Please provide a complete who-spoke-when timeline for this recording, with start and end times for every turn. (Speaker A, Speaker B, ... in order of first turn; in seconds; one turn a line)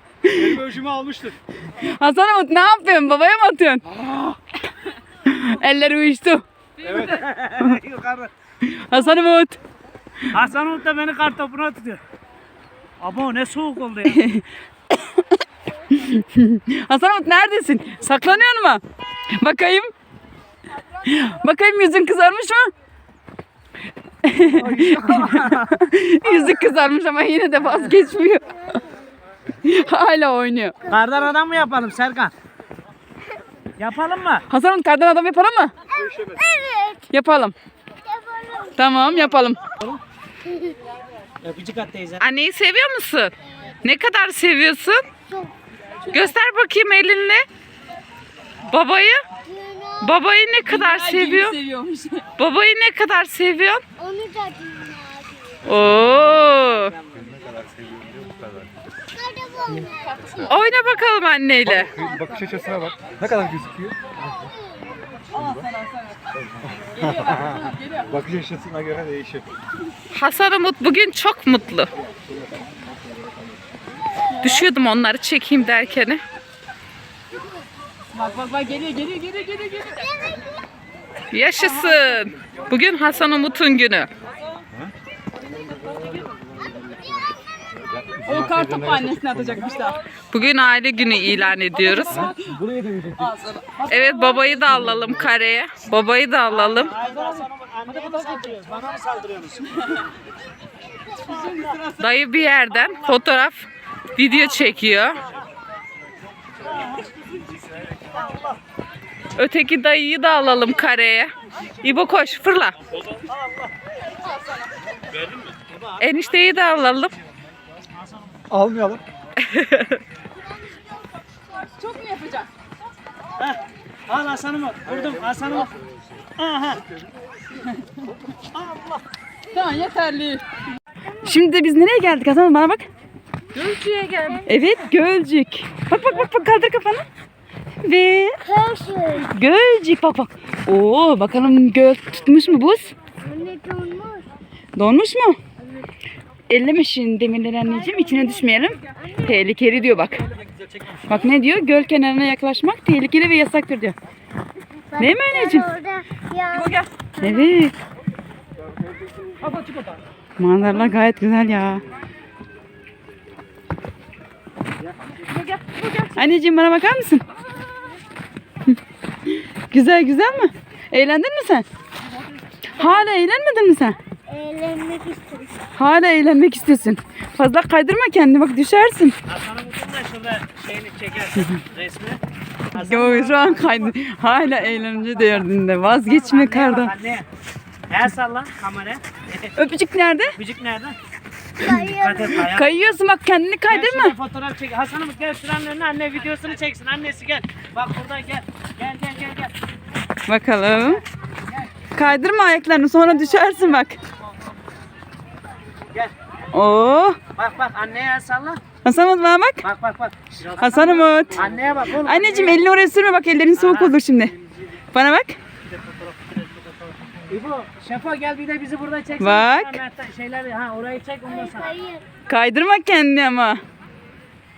Speaker A: 0.3-1.4
Speaker B: 1.8-3.8
Speaker B: 5.2-6.4
Speaker C: 6.8-8.3
Speaker B: 8.6-9.6
Speaker C: 10.3-12.0
Speaker C: 13.0-14.2
Speaker B: 14.1-15.2
Speaker B: 15.9-18.8
Speaker B: 19.4-19.9
Speaker B: 21.0-22.7
Speaker B: 24.2-28.8
Speaker C: 24.5-25.7
Speaker C: 27.6-27.9
Speaker B: 29.6-30.9
Speaker C: 30.9-32.3
Speaker C: 33.8-34.5
Speaker B: 34.5-35.7
Speaker D: 36.1-37.0
Speaker B: 37.1-37.5
Speaker D: 38.0-38.7
Speaker B: 38.8-39.6
Speaker D: 40.5-40.8
Speaker C: 41.4-42.2
Speaker E: 42.2-45.0
Speaker D: 45.3-45.5
Speaker E: 46.1-47.5
Speaker E: 48.7-49.2
Speaker D: 49.5-50.2
Speaker E: 50.0-51.6
Speaker B: 50.5-52.4
Speaker E: 52.4-53.8
Speaker D: 54.0-55.7
Speaker E: 55.7-56.9
Speaker B: 55.8-56.8
Speaker A: 57.3-58.3
Speaker D: 59.1-60.5
Speaker E: 60.4-61.9
Speaker B: 61.4-61.9
Speaker A: 61.7-64.1
Speaker A: 66.9-69.5
Speaker E: 70.1-71.9
Speaker E: 74.4-76.2
Speaker B: 78.2-80.0
Speaker E: 81.3-84.1
Speaker B: 81.6-82.0
Speaker B: 88.2-90.0
Speaker A: 88.3-89.0
Speaker E: 90.3-92.3
Speaker B: 91.2-92.5
Speaker A: 92.4-93.3
Speaker B: 93.2-94.0
Speaker E: 93.8-96.9
Speaker C: 96.5-99.8
Speaker C: 101.2-102.0
Speaker E: 102.0-105.2
Speaker C: 106.7-107.4
Speaker C: 108.0-108.5
Speaker E: 109.3-112.7
Speaker C: 113.3-113.6
Speaker C: 115.5-116.0
Speaker E: 116.0-117.1
Speaker C: 118.0-118.4
Speaker A: 118.5-119.0
Speaker B: 121.8-122.5
Speaker C: 123.4-125.7
Speaker C: 126.4-126.8
Speaker C: 128.6-129.0
Speaker B: 129.5-130.4
Speaker B: 131.1-132.9
Speaker E: 133.6-134.3
Speaker B: 133.7-137.0
Speaker B: 137.8-138.4
Speaker D: 138.5-139.3
Speaker B: 139.2-142.9
Speaker D: 143.2-144.3
Speaker B: 144.8-145.4
Speaker B: 146.5-150.2
Speaker D: 149.0-149.3
Speaker B: 151.0-153.9
Speaker D: 154.9-156.8
Speaker B: 155.0-155.7
Speaker B: 156.6-157.7
Speaker B: 160.4-161.8
Speaker E: 165.3-166.1
Speaker B: 166.0-167.2
Speaker B: 169.3-171.7
Speaker B: 172.7-174.0
Speaker D: 174.3-175.7
Speaker B: 175.8-179.2
Speaker C: 179.3-182.2
Speaker C: 182.7-187.3
Speaker B: 182.7-186.9
Speaker C: 187.9-189.5
Speaker B: 189.6-190.4
Speaker C: 190.4-190.9
Speaker D: 191.6-192.2
Speaker C: 191.9-192.9
Speaker B: 192.4-194.2
Speaker C: 193.7-199.5
Speaker B: 200.3-201.0
Speaker B: 201.9-204.0
Speaker B: 206.5-207.2
Speaker C: 207.3-208.6
Speaker B: 208.8-209.7
Speaker C: 209.6-212.6
Speaker B: 210.6-214.4
Speaker C: 213.6-213.9
Speaker B: 214.9-215.3
Speaker C: 215.9-216.4
Speaker C: 217.1-221.8
Speaker B: 219.2-219.8
Speaker D: 221.5-222.1
Speaker B: 222.3-223.6